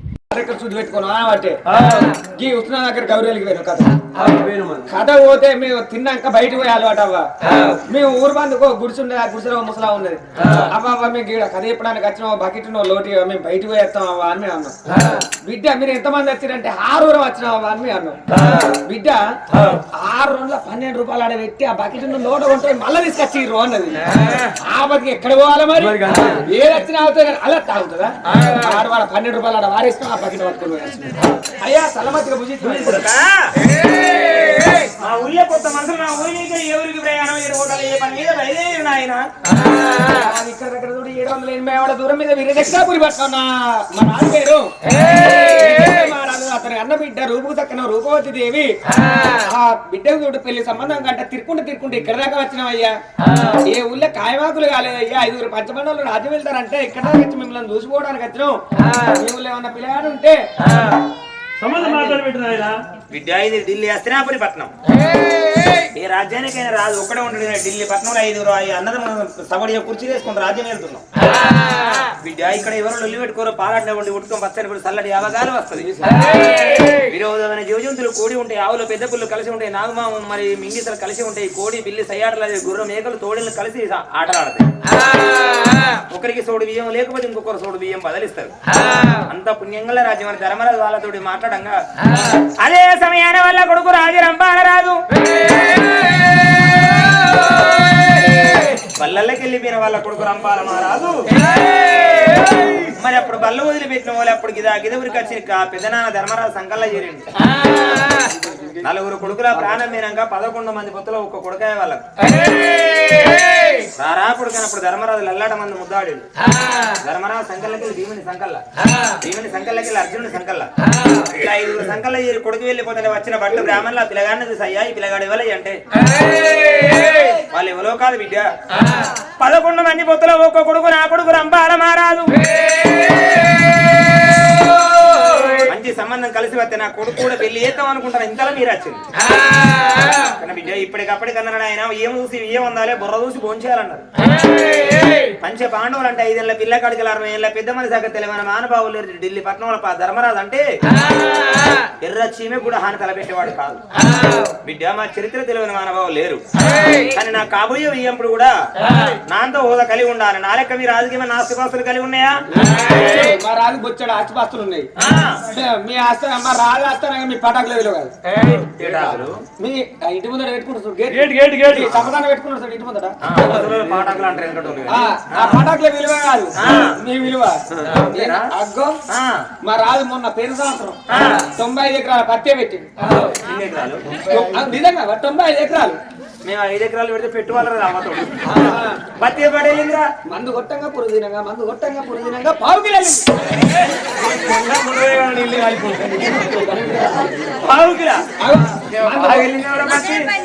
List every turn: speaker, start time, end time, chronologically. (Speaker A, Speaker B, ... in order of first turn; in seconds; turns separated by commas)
Speaker A: 0.3-4.0, Speaker B: 1.7-2.1, Speaker B: 4.2-4.9, Speaker A: 4.9-7.3, Speaker A: 7.8-19.2, Speaker B: 19.5-19.8, Speaker A: 19.9-33.0, Speaker B: 25.8-26.4, Speaker B: 28.4-28.8, Speaker C: 32.7-33.5, Speaker C: 34.4-39.2, Speaker A: 39.9-53.0, Speaker A: 53.6-60.5, Speaker B: 61.6-62.8, Speaker A: 61.8-62.2, Speaker C: 63.1-64.7, Speaker C: 65.9-71.0, Speaker C: 72.2-75.9, Speaker A: 75.8-76.2, Speaker C: 76.6-84.7, Speaker C: 85.9-88.5, Speaker C: 89.1-95.0, Speaker C: 98.5-101.3, Speaker C: 103.0-107.2, Speaker C: 108.8-112.0, Speaker C: 114.0-125.8, Speaker C: 127.3-128.5, Speaker C: 129.4-132.5, Speaker C: 135.4-139.0, Speaker C: 140.3-144.1, Speaker C: 145.3-150.7, Speaker C: 152.0-153.8, Speaker C: 154.6-162.6, Speaker A: 162.6-164.9, Speaker C: 165.0-165.4, Speaker A: 165.5-168.1, Speaker C: 168.3-169.4, Speaker A: 169.6-173.2, Speaker B: 171.1-171.9, Speaker C: 173.2-175.6, Speaker A: 174.9-179.0, Speaker C: 176.6-176.9, Speaker C: 177.9-178.5, Speaker C: 179.1-179.4, Speaker A: 179.6-182.9, Speaker C: 181.1-181.4, Speaker C: 183.1-184.5, Speaker A: 184.3-186.0, Speaker C: 186.4-190.1, Speaker A: 188.5-189.0, Speaker A: 190.3-193.2, Speaker B: 194.3-196.1, Speaker A: 195.8-197.5, Speaker C: 197.6-198.3, Speaker A: 198.4-199.5, Speaker C: 199.0-200.3